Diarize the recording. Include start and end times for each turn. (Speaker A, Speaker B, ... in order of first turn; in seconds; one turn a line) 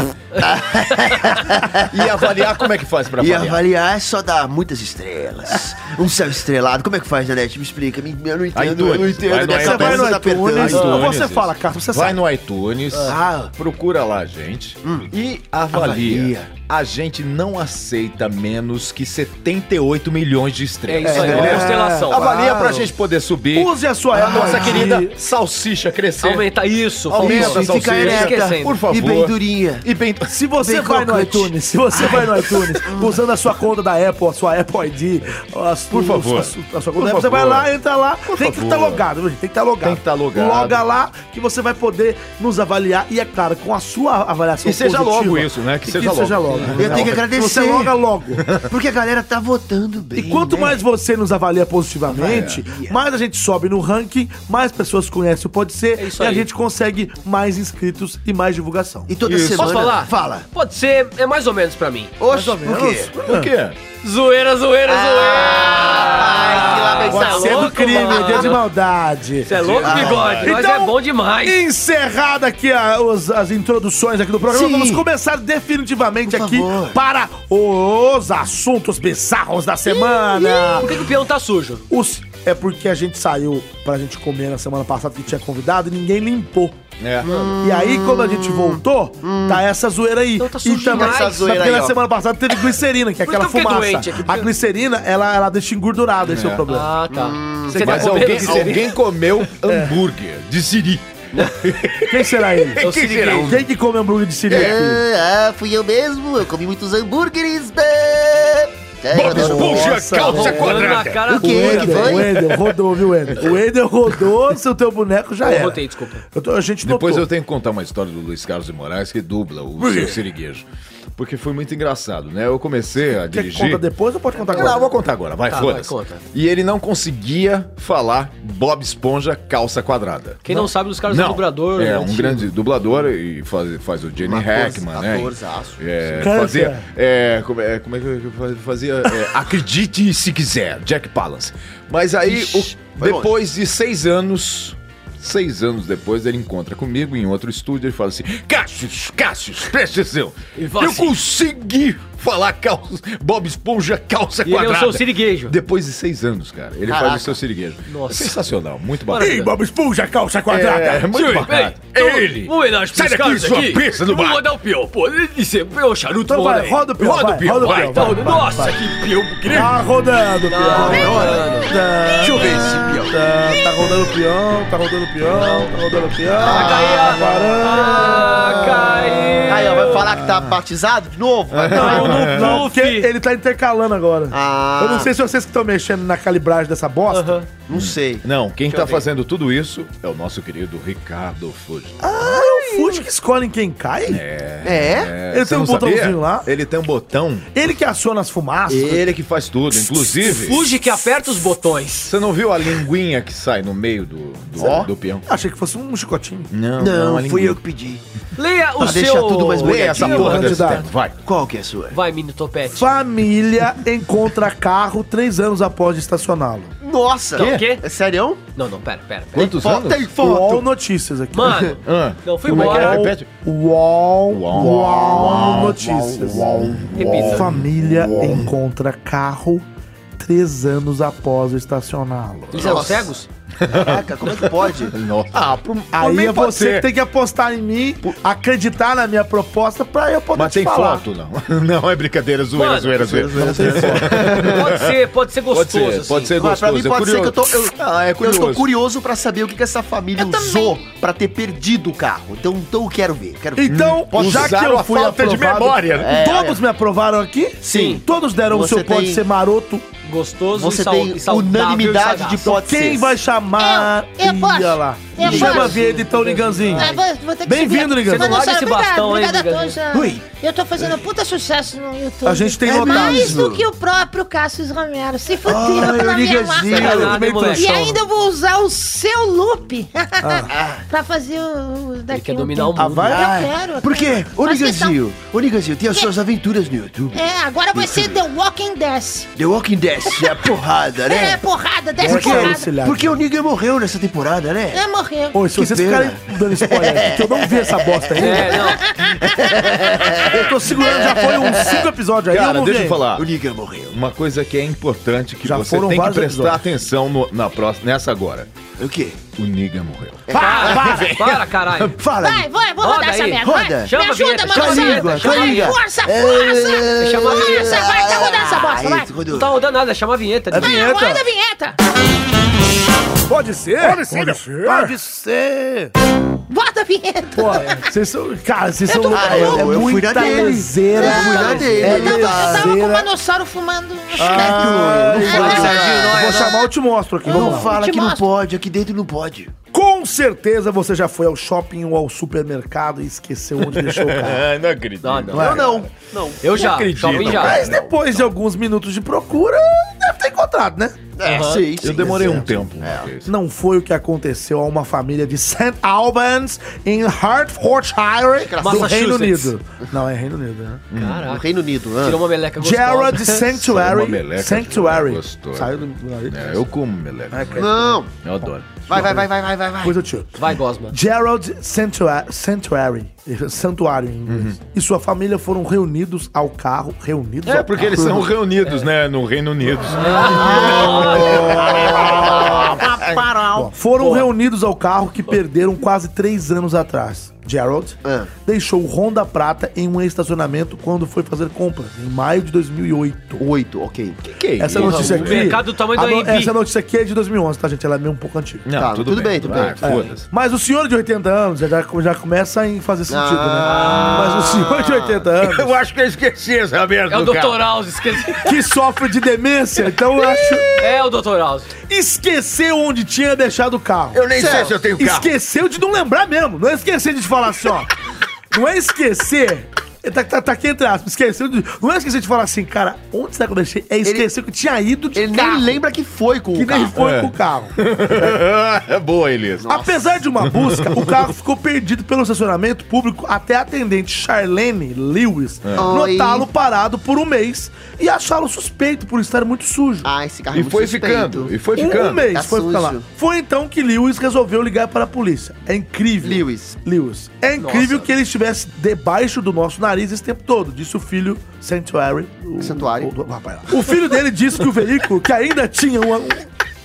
Speaker A: 0.3-1.4
Speaker B: 0.4-2.2
Speaker C: 1.7-3.6
Speaker B: 3.2-11.0
Speaker C: 8.5-26.5
Speaker D: 9.5-12.2
Speaker B: 13.1-13.5
Speaker B: 14.8-15.1
Speaker B: 15.7-16.5
Speaker A: 20.9-22.8
Speaker B: 21.0-21.7
Speaker D: 21.1-22.8
Speaker B: 22.3-22.7
Speaker D: 23.5-25.1
Speaker B: 24.1-24.9
Speaker A: 26.2-28.8
Speaker C: 27.1-30.3
Speaker B: 27.2-29.9
Speaker D: 30.3-48.5
Speaker B: 30.6-33.2
Speaker C: 35.9-37.7
Speaker C: 38.3-39.0
Speaker C: 39.8-40.8
Speaker C: 44.6-47.2
Speaker B: 46.8-48.0
Speaker C: 48.4-48.7
Speaker B: 48.6-50.8
Speaker D: 50.1-59.1
Speaker B: 52.1-53.0
Speaker C: 52.2-52.6
Speaker A: 56.0-56.5
Speaker B: 59.1-60.5
Speaker C: 59.2-60.0
Speaker A: 59.6-62.1
Speaker B: 62.2-63.1
Speaker D: 62.3-63.5
Speaker C: 63.1-63.8
Speaker A: 64.0-68.6
Speaker B: 64.9-68.6
Speaker D: 67.0-69.5
Speaker A: 69.4-71.6
Speaker C: 69.5-70.5
Speaker B: 69.8-70.4
Speaker D: 70.4-80.9
Speaker B: 74.5-75.0
Speaker B: 76.2-77.0
Speaker A: 79.9-81.8
Speaker D: 81.9-86.8
Speaker C: 87.0-87.3
Speaker B: 87.2-89.6
Speaker A: 87.2-87.5
Speaker D: 87.6-96.9
Speaker A: 90.4-91.5
Speaker B: 90.9-92.0
Speaker A: 93.2-94.5
Speaker C: 96.2-96.6
Speaker A: 96.7-98.9
Speaker B: 97.1-98.8
Speaker C: 97.8-103.6
Speaker D: 99.6-100.0
Speaker D: 102.1-102.8
Speaker A: 102.8-103.6
Speaker D: 103.3-105.0
Speaker C: 104.5-104.8
Speaker B: 104.5-110.0
Speaker C: 109.1-111.3
Speaker D: 109.2-115.8
Speaker A: 110.3-112.2
Speaker B: 111.3-112.6
Speaker C: 112.0-112.4
Speaker C: 113.3-113.5
Speaker A: 115.4-116.2
Speaker D: 116.3-117.3
Speaker C: 116.8-123.8
Speaker D: 119.8-120.2
Speaker D: 123.2-124.8
Speaker C: 124.5-159.4
Speaker A: 124.5-124.8
Speaker A: 125.5-126.2
Speaker A: 130.4-132.5
Speaker B: 134.2-136.2
Speaker D: 136.2-136.9
Speaker B: 142.2-143.3
Speaker A: 150.6-151.1
Speaker A: 154.4-155.5
Speaker B: 156.9-157.4
Speaker A: 157.9-158.4
Speaker A: 159.1-159.5
Speaker D: 159.2-161.1
Speaker C: 160.5-164.4
Speaker A: 161.1-166.9
Speaker D: 166.3-168.8
Speaker C: 167.0-168.3
Speaker A: 167.6-169.6
Speaker C: 169.0-169.7
Speaker D: 169.5-178.3
Speaker A: 170.5-171.7
Speaker B: 170.7-173.2
Speaker A: 175.2-175.7
Speaker B: 176.3-182.3
Speaker A: 176.4-180.1
Speaker C: 181.5-182.6
Speaker A: 181.7-183.1
Speaker D: 181.7-187.4
Speaker B: 184.3-185.1
Speaker A: 187.1-187.5
Speaker B: 187.7-189.1
Speaker C: 187.7-192.0
Speaker D: 192.0-194.2
Speaker B: 192.2-193.0
Speaker C: 194.0-197.5
Speaker B: 194.6-195.1
Speaker D: 195.3-196.5
Speaker D: 197.5-199.0
Speaker C: 198.7-200.7
Speaker B: 198.7-199.0
Speaker A: 200.2-202.1
Speaker C: 202.1-205.2
Speaker B: 204.6-204.9
Speaker D: 205.2-206.5
Speaker C: 206.5-207.6
Speaker B: 206.8-208.0
Speaker A: 208.3-210.5
Speaker B: 208.8-212.0
Speaker C: 209.6-211.2
Speaker D: 210.0-210.9
Speaker A: 211.9-213.0
Speaker D: 212.7-216.7
Speaker B: 216.8-218.4
Speaker A: 217.3-217.8
Speaker C: 217.4-217.6
Speaker A: 218.6-219.6
Speaker C: 219.3-220.1
Speaker B: 219.3-220.7
Speaker D: 220.2-221.7
Speaker A: 221.3-223.0
Speaker B: 221.4-221.7
Speaker C: 221.8-223.3
Speaker D: 222.5-229.6
Speaker C: 224.3-228.5
Speaker B: 224.5-227.3
Speaker A: 226.9-227.5
Speaker D: 230.2-232.8
Speaker C: 232.5-232.9
Speaker A: 232.5-233.3
Speaker B: 232.5-233.1
Speaker C: 233.6-236.9
Speaker B: 233.7-234.9
Speaker D: 235.9-241.0
Speaker C: 240.3-244.9
Speaker A: 242.5-243.0
Speaker B: 243.0-244.7
Speaker D: 243.3-244.3
Speaker A: 244.2-246.3
Speaker C: 245.5-248.7
Speaker B: 246.4-254.5
Speaker E: 250.2-250.7
Speaker D: 253.6-259.8
Speaker C: 253.7-256.2
Speaker B: 255.9-256.6
Speaker B: 257.6-259.2
Speaker A: 257.7-258.0
Speaker A: 260.0-262.5
Speaker B: 260.5-263.2
Speaker D: 262.4-266.9
Speaker E: 263.6-265.8
Speaker A: 265.2-267.0
Speaker B: 265.2-265.7
Speaker E: 266.7-285.0
Speaker D: 267.4-268.5
Speaker A: 268.1-270.0
Speaker D: 272.2-273.4
Speaker B: 272.6-273.7
Speaker B: 275.4-277.2
Speaker D: 276.6-278.0
Speaker A: 276.7-277.9
Speaker D: 280.2-280.5
Speaker B: 280.5-280.8
Speaker A: 282.1-283.2
Speaker D: 282.8-283.5
Speaker B: 283.8-288.2
Speaker E: 287.1-289.3
Speaker B: 289.4-291.5
Speaker E: 290.1-290.4
Speaker E: 291.0-292.8
Speaker D: 292.0-293.2
Speaker B: 292.0-294.8
Speaker E: 294.7-295.5
Speaker D: 295.3-298.6
Speaker B: 295.5-301.9
Speaker A: 298.1-298.8
Speaker E: 298.6-300.1
Speaker D: 300.2-303.0
Speaker C: 302.3-303.3
Speaker B: 303.1-303.9
Speaker C: 303.9-308.5
Speaker D: 305.4-306.6
Speaker B: 308.8-309.2
Speaker C: 309.4-311.9
Speaker B: 310.3-311.1
Speaker A: 310.3-311.9
Speaker D: 310.6-311.0
Speaker B: 311.9-312.5
Speaker E: 312.1-319.1
Speaker A: 312.8-315.8
Speaker B: 313.4-319.6
Speaker A: 317.0-317.9
Speaker A: 319.3-320.8
Speaker D: 320.5-321.2
Speaker E: 320.5-321.8
Speaker D: 323.3-325.9
Speaker C: 323.9-324.9
Speaker E: 326.5-327.8
Speaker D: 327.3-333.1
Speaker E: 328.9-335.8
Speaker B: 329.1-332.8
Speaker A: 331.2-331.8
Speaker D: 334.1-337.7
Speaker B: 334.1-336.3
Speaker A: 335.2-336.6
Speaker E: 337.2-338.2
Speaker B: 337.3-339.5
Speaker D: 339.7-344.5
Speaker C: 343.6-345.9
Speaker A: 345.0-345.6
Speaker B: 345.3-347.9
Speaker D: 345.4-345.6
Speaker A: 346.4-347.6
Speaker C: 346.4-347.8
Speaker D: 347.3-351.1
Speaker B: 351.2-353.1
Speaker A: 351.2-351.7
Speaker C: 351.8-353.3
Speaker D: 353.2-360.8
Speaker B: 358.4-358.9
Speaker A: 358.6-359.5
Speaker C: 360.9-361.3
Speaker A: 360.9-361.4
Speaker B: 361.2-362.2
Speaker A: 362.0-363.4
Speaker D: 362.6-366.6
Speaker C: 363.5-369.1
Speaker D: 367.3-368.0
Speaker B: 367.5-368.1
Speaker B: 368.9-370.0
Speaker D: 368.9-369.3
Speaker D: 369.8-370.3
Speaker A: 370.4-370.9
Speaker D: 370.9-378.0
Speaker C: 374.3-374.6
Speaker C: 377.4-383.3
Speaker B: 378.0-378.3
Speaker A: 379.9-381.8
Speaker B: 380.3-383.7
Speaker D: 383.5-393.4
Speaker B: 388.0-388.3
Speaker B: 393.4-395.3
Speaker C: 394.2-395.6
Speaker D: 394.6-398.6
Speaker A: 394.8-396.5
Speaker C: 398.6-400.2
Speaker B: 398.7-400.1
Speaker D: 399.8-405.7
Speaker B: 403.1-405.2
Speaker A: 403.6-404.4
Speaker C: 405.4-407.6
Speaker A: 407.1-408.5
Speaker D: 408.4-410.7
Speaker C: 409.9-410.6
Speaker A: 410.8-411.7
Speaker D: 411.9-417.9
Speaker C: 414.1-415.3
Speaker B: 414.3-414.8
Speaker D: 418.5-425.8
Speaker B: 425.1-426.9
Speaker D: 426.5-428.4
Speaker C: 426.9-431.3
Speaker B: 429.6-429.9
Speaker D: 429.7-440.1
Speaker C: 435.6-435.9
Speaker B: 435.8-436.5
Speaker B: 440.0-443.0
Speaker C: 440.5-442.3
Speaker D: 441.8-456.5
Speaker B: 446.2-446.8
Speaker A: 447.6-448.1
Speaker B: 452.6-453.1